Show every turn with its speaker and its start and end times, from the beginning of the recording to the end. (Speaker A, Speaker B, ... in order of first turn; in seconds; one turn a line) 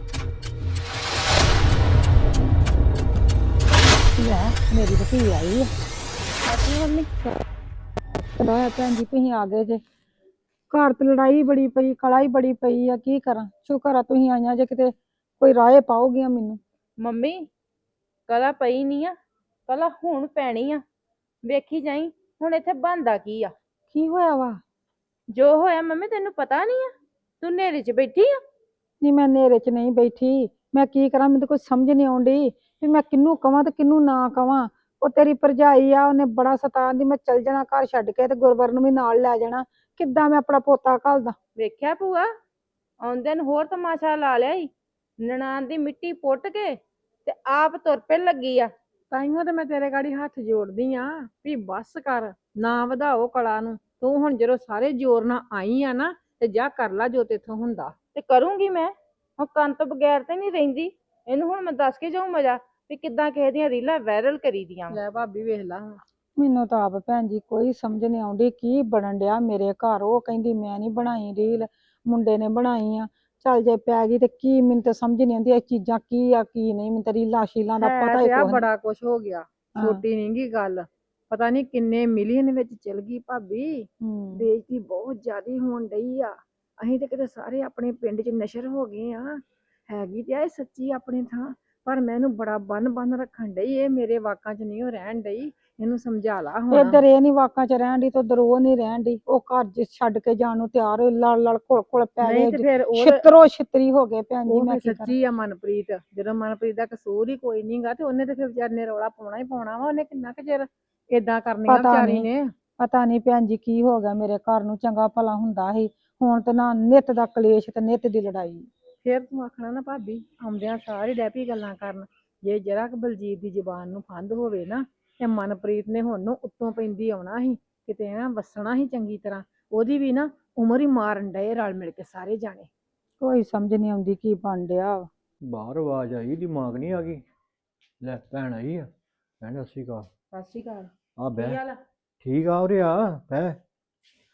Speaker A: 4.2-5.7
Speaker A: 8.4-9.8
Speaker A: 10.7-16.6
Speaker B: 17.0-17.4
Speaker B: 18.3-19.1
Speaker B: 19.7-20.8
Speaker B: 21.5-23.5
Speaker A: 23.9-24.6
Speaker B: 25.3-28.4
Speaker A: 29.0-41.3
Speaker B: 41.5-42.2
Speaker B: 43.0-44.7
Speaker B: 45.2-46.7
Speaker B: 47.2-48.7
Speaker C: 49.1-57.9
Speaker B: 58.1-65.0
Speaker C: 64.9-66.0
Speaker A: 66.3-78.7
Speaker C: 77.8-97.0
Speaker A: 79.8-80.0
Speaker A: 84.0-84.5
Speaker A: 96.7-105.1
Speaker C: 102.2-103.2
Speaker C: 104.5-112.5
Speaker A: 111.7-112.3
Speaker A: 112.8-118.7
Speaker C: 119.0-132.7
Speaker A: 133.2-135.1
Speaker D: 135.5-137.2
Speaker D: 138.0-138.9
Speaker D: 139.4-140.1
Speaker B: 140.3-141.8
Speaker D: 141.2-141.6
Speaker D: 142.2-143.6